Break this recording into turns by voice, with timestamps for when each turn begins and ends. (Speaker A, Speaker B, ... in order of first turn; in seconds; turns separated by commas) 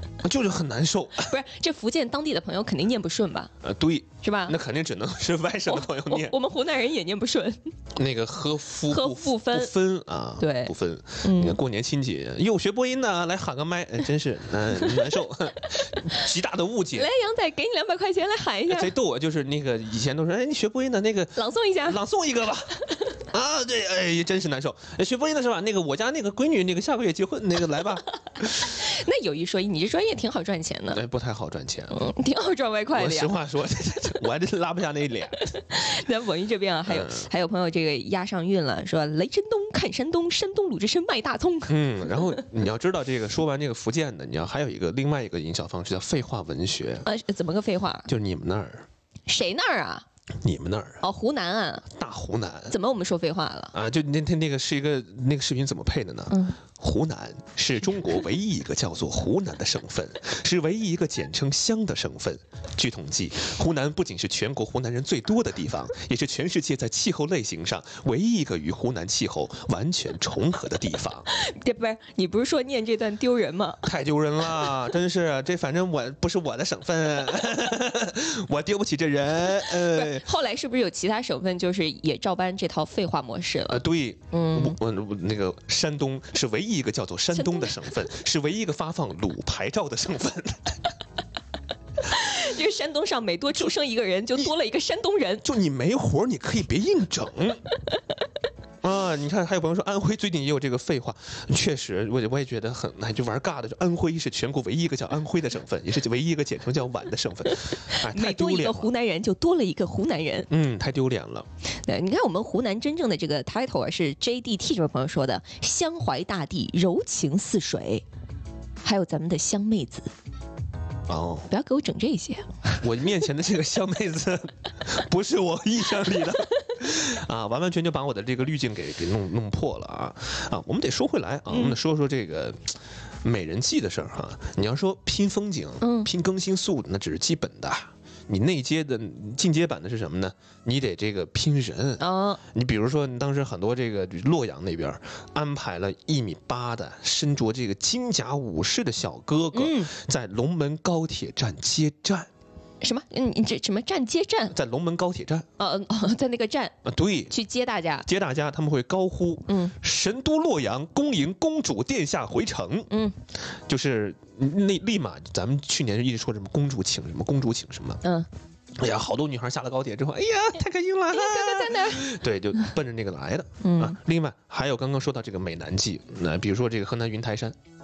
Speaker A: 0.2-1.3, Speaker B: 1.3-3.5, Speaker A: 3.6-6.3, Speaker B: 4.2-4.5, Speaker B: 5.7-7.7, Speaker A: 7.9-17.1, Speaker B: 8.9-9.7, Speaker B: 10.4-11.6, Speaker B: 17.0-18.9, Speaker A: 18.7-28.8, Speaker B: 21.4-22.0, Speaker B: 28.8-31.0, Speaker A: 30.9-32.0, Speaker B: 31.9-33.3, Speaker A: 32.9-35.4, Speaker B: 35.5-42.1, Speaker A: 36.9-37.3, Speaker A: 41.7-47.1, Speaker B: 47.0-48.1, Speaker A: 48.1-48.9, Speaker B: 49.3-50.0, Speaker A: 50.4-51.0, Speaker B: 51.0-51.8, Speaker A: 51.9-52.8, Speaker B: 52.7-53.7, Speaker A: 53.7-71.3, Speaker B: 71.3-73.8, Speaker A: 73.8-80.2, Speaker B: 79.5-83.8, Speaker A: 83.7-90.8, Speaker B: 84.3-84.8, Speaker B: 87.3-87.8, Speaker B: 92.0-95.4, Speaker A: 95.4-97.6, Speaker A: 98.8-108.9, Speaker B: 107.9-110.5, Speaker A: 110.5-111.5, Speaker B: 111.8-118.0, Speaker B: 118.8-120.1, Speaker A: 121.1-121.5, Speaker B: 121.5-122.8, Speaker A: 122.8-152.3, Speaker B: 131.5-131.8, Speaker B: 135.8-136.1, Speaker B: 142.0-142.4, Speaker B: 149.5-149.9, Speaker B: 152.8-154.5, Speaker A: 154.5-155.4, Speaker B: 155.6-156.7, Speaker A: 156.8-157.3, Speaker B: 157.3-158.0, Speaker A: 158.0-162.9, Speaker A: 163.7-168.0, Speaker B: 168.0-168.3, Speaker A: 168.8-177.6, Speaker B: 171.1-172.0, Speaker B: 173.6-173.9